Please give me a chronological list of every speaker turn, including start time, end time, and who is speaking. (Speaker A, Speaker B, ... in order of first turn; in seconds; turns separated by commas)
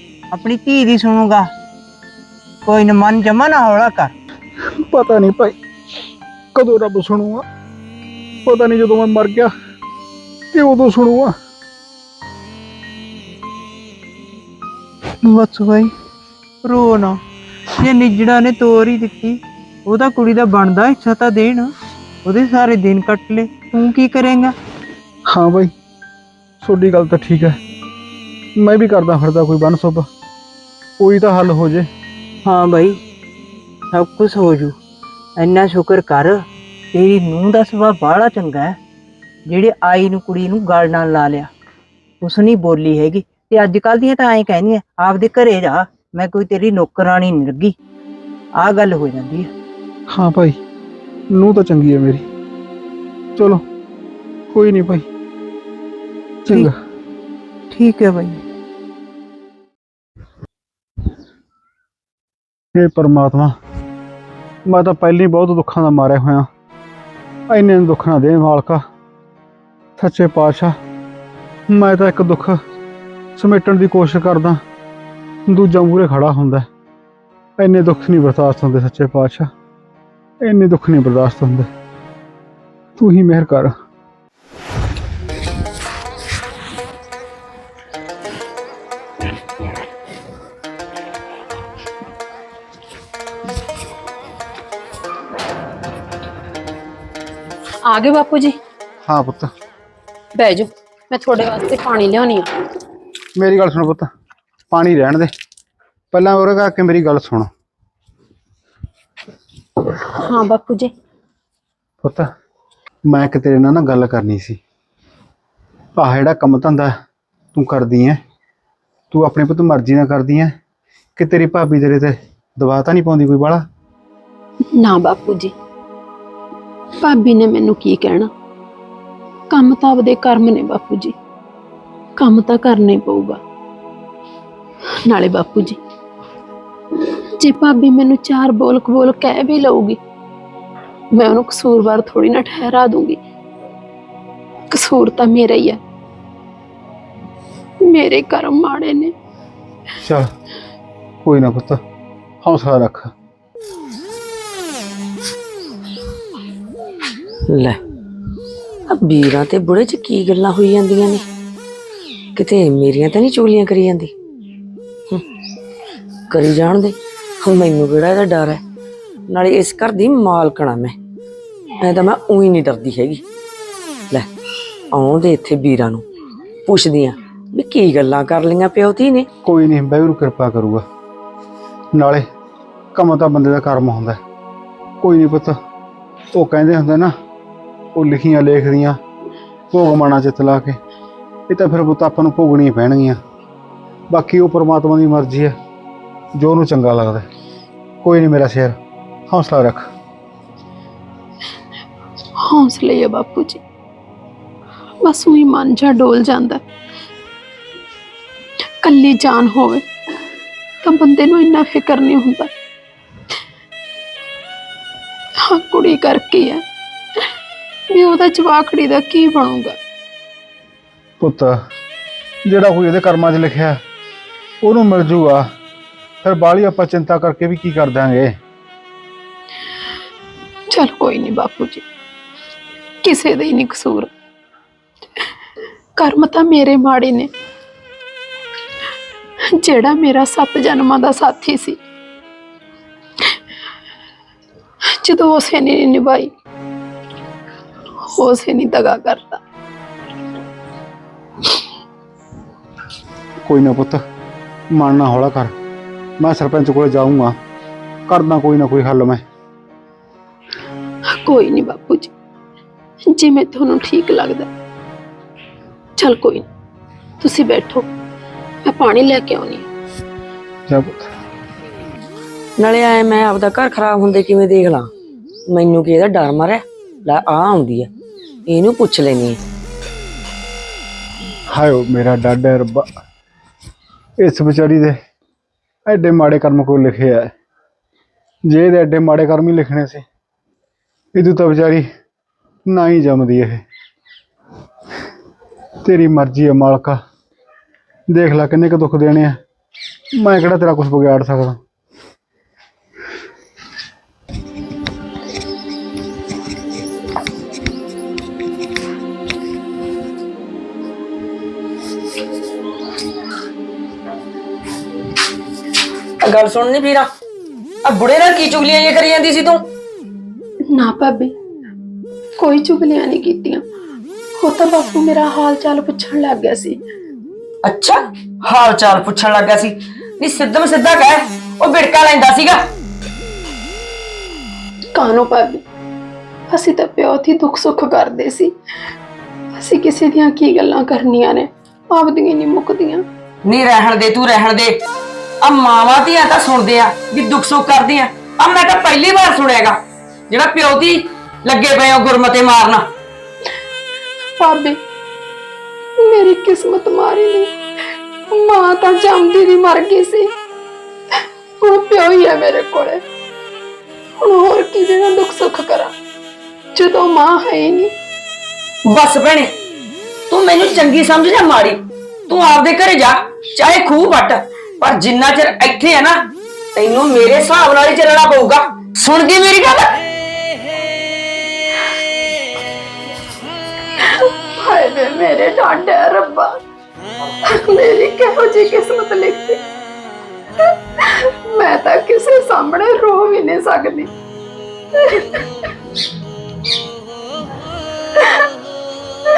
Speaker A: 0.3-1.5, Speaker A: 2.6-4.1, Speaker B: 4.7-5.6, Speaker B: 6.5-7.5, Speaker B: 8.4-9.5, Speaker B: 10.5-11.3, Speaker A: 15.2-15.9, Speaker A: 16.6-17.2, Speaker A: 17.7-21.7, Speaker A: 22.2-24.6, Speaker B: 25.3-25.7, Speaker B: 26.6-27.6, Speaker B: 28.6-30.1, Speaker B: 31.0-31.9, Speaker A: 32.4-33.0, Speaker A: 33.9-34.8, Speaker A: 35.4-38.8, Speaker A: 39.5-41.5, Speaker A: 42.2-47.8, Speaker A: 48.5-49.5, Speaker B: 50.1-50.6, Speaker B: 51.3-52.2, Speaker B: 53.4-53.6, Speaker B: 54.5-55.1, Speaker B: 56.4-56.8, Speaker A: 57.7-58.4, Speaker B: 62.7-63.5, Speaker B: 64.7-66.5, Speaker B: 67.5-68.8, Speaker B: 70.0-70.8, Speaker B: 71.7-72.6, Speaker B: 73.3-74.6, Speaker B: 75.5-76.7, Speaker B: 77.6-79.5, Speaker B: 80.4-81.7, Speaker B: 83.0-83.7, Speaker C: 97.8-98.6, Speaker B: 99.0-99.5, Speaker C: 100.3-102.5, Speaker B: 103.3-104.1, Speaker B: 104.7-105.3, Speaker B: 106.1-107.5, Speaker C: 110.0-110.9, Speaker B: 112.0-112.3, Speaker B: 113.0-114.6, Speaker B: 116.0-116.9, Speaker B: 117.5-118.2, Speaker B: 119.1-120.5, Speaker B: 121.2-123.6, Speaker D: 124.7-125.5, Speaker D: 127.0-128.3, Speaker D: 129.5-131.1, Speaker D: 132.2-133.4, Speaker D: 135.0-135.8, Speaker D: 137.4-140.0, Speaker D: 141.1-143.2, Speaker D: 144.7-145.8, Speaker D: 147.8-149.1, Speaker B: 150.0-150.3, Speaker B: 151.2-151.8, Speaker B: 152.4-153.1, Speaker E: 157.5-157.8, Speaker E: 158.9-161.2, Speaker E: 162.3-164.1, Speaker E: 166.3-168.6, Speaker E: 169.3-170.9, Speaker E: 171.8-173.2, Speaker E: 174.9-176.0, Speaker E: 176.7-179.3, Speaker B: 179.4-180.8, Speaker B: 181.9-182.3, Speaker B: 182.9-184.2, Speaker B: 185.0-185.6, Speaker B: 186.3-187.1, Speaker B: 187.9-189.0, Speaker B: 189.7-190.8, Speaker B: 191.5-193.2, Speaker B: 194.1-195.6, Speaker B: 196.3-197.3, Speaker B: 198.0-198.8, Speaker B: 199.3-199.9, Speaker D: 202.4-203.6, Speaker D: 205.0-206.6, Speaker D: 208.8-209.8, Speaker D: 210.8-212.5, Speaker D: 215.4-216.6, Speaker D: 217.9-219.8, Speaker B: 221.2-221.6, Speaker B: 222.4-223.8, Speaker B: 224.6-225.5, Speaker B: 226.2-228.4, Speaker D: 230.7-231.8, Speaker D: 233.0-234.1, Speaker D: 235.9-237.3, Speaker D: 239.5-241.8, Speaker D: 244.9-246.3, Speaker D: 248.0-249.4, Speaker B: 253.4-254.0, Speaker B: 254.7-255.5, Speaker B: 256.2-257.4, Speaker B: 258.1-259.2, Speaker D: 261.1-262.1, Speaker D: 263.0-264.5, Speaker D: 266.0-266.5, Speaker D: 267.2-267.9, Speaker D: 268.6-269.7, Speaker B: 270.7-271.1, Speaker E: 272.6-274.9, Speaker E: 275.5-277.9, Speaker E: 278.5-279.4, Speaker B: 281.5-282.9, Speaker B: 284.2-285.0, Speaker B: 285.9-287.3, Speaker B: 288.5-290.0, Speaker B: 291.1-291.9, Speaker B: 292.7-293.6, Speaker B: 295.8-297.0, Speaker B: 298.1-299.4, Speaker B: 300.2-301.6, Speaker E: 316.2-317.1, Speaker E: 317.8-319.6, Speaker D: 320.7-321.3, Speaker D: 322.4-323.6, Speaker D: 324.4-326.8, Speaker E: 327.6-332.7, Speaker D: 334.9-335.6, Speaker D: 336.5-338.5, Speaker D: 339.5-343.0, Speaker E: 343.4-344.8, Speaker E: 345.4-349.8, Speaker E: 350.3-352.9, Speaker D: 354.4-354.8, Speaker D: 356.0-357.5, Speaker D: 358.3-360.3, Speaker D: 361.1-363.0, Speaker D: 364.2-365.9, Speaker D: 366.7-367.9, Speaker E: 368.8-369.5, Speaker E: 370.3-380.0, Speaker D: 384.0-386.6, Speaker D: 387.4-389.6, Speaker D: 391.0-394.1, Speaker D: 395.0-395.4